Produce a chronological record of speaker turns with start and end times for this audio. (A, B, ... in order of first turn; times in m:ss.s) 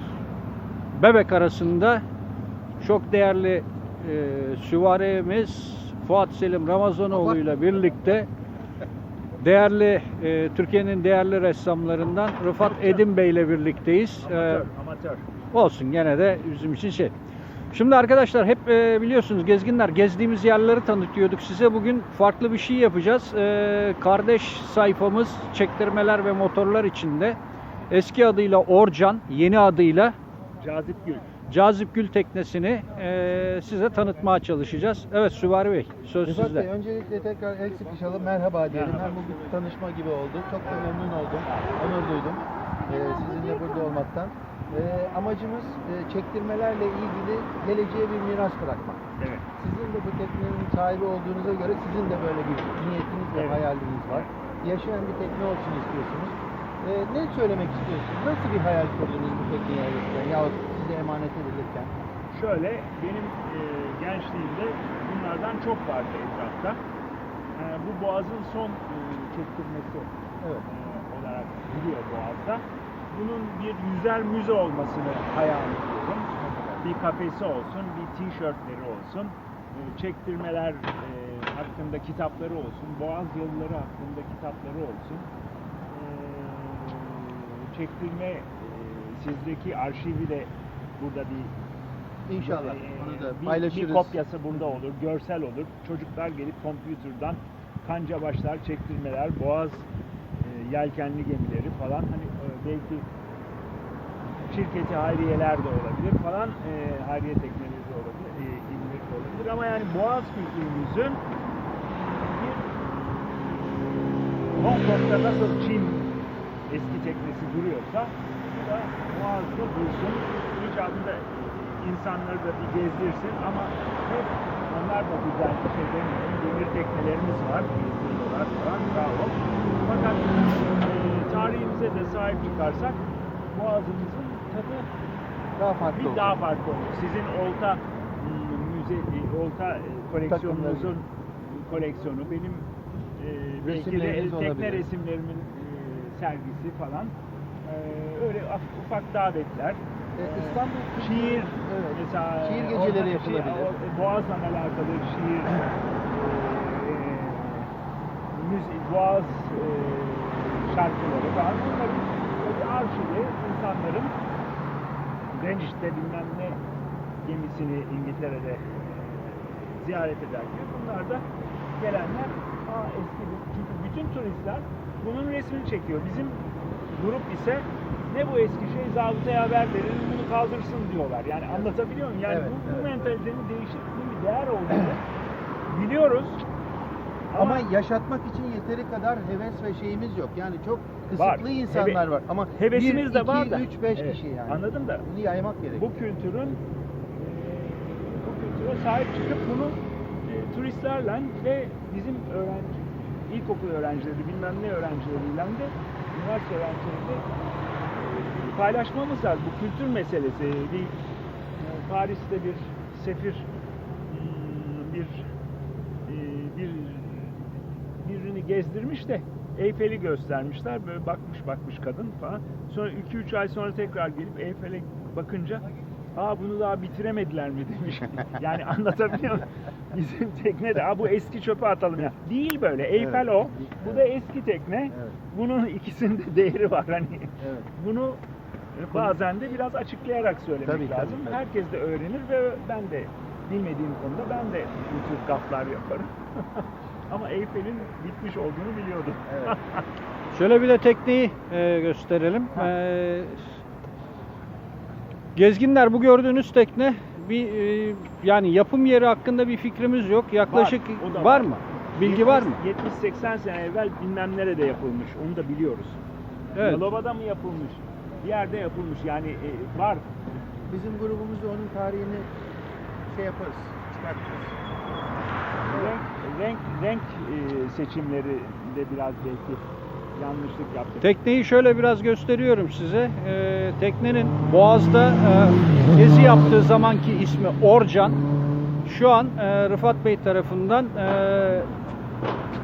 0:00.9-0:02.0 A
0:02.8-0:08.3 A
0:07.1-0:07.4 B
0:09.4-0:14.6 A
0:12.6-0:13.0 C
0:14.2-0:15.2 C
0:15.5-0:17.1 A
0:17.7-0:27.4 A
0:27.9-0:30.1 A
0:30.6-0:31.2 C
0:31.5-0:36.7 A
0:36.2-0:49.0 B
0:38.7-0:39.1 C
0:40.6-0:40.9 C
0:41.4-0:41.9 C
0:49.2-0:49.4 C
0:49.6-1:01.9 B
0:53.3-0:54.3 C
1:02.3-1:06.8 C
1:07.6-1:10.1 C
1:10.6-1:25.3 C
1:16.4-1:16.8 B
1:25.9-1:31.5 C
1:32.3-1:34.2 B
1:32.4-1:39.9 C
1:40.4-1:43.1 C
1:44.5-1:51.2 C
1:51.9-1:52.7 C
1:54.5-1:56.1 C
1:56.7-2:14.9 C
2:15.6-2:16.4 B
2:15.9-2:37.7 C
2:20.3-2:20.9 B
2:23.6-2:24.9 B
2:30.1-2:33.7 B
2:38.3-2:44.1 C
2:45.3-2:46.6 C
2:47.2-2:51.2 C
2:51.8-3:05.0 C
3:02.2-3:02.9 B
3:05.7-3:06.4 C
3:07.3-3:07.6 C
3:07.3-3:15.8 B
3:11.2-3:12.0 C
3:12.6-3:15.0 C
3:15.7-3:16.6 C
3:17.2-3:27.2 C
3:28.1-3:30.9 C
3:31.6-3:33.5 C
3:34.1-3:35.2 C
3:36.0-3:37.4 C
3:38.0-3:58.2 C
3:53.0-3:54.0 B
3:54.9-3:55.2 B
3:57.4-3:57.7 B
3:58.7-4:09.8 C
4:00.6-4:01.4 B
4:09.3-4:09.5 B
4:10.3-4:13.4 A
4:15.3-4:22.6 A
4:20.5-4:26.0 C
4:26.6-4:26.8 A
4:26.6-4:30.1 C
4:30.7-4:32.3 B
4:33.1-4:34.5 B
4:35.7-4:41.1 C
4:41.0-4:48.2 A
4:48.8-4:51.7 A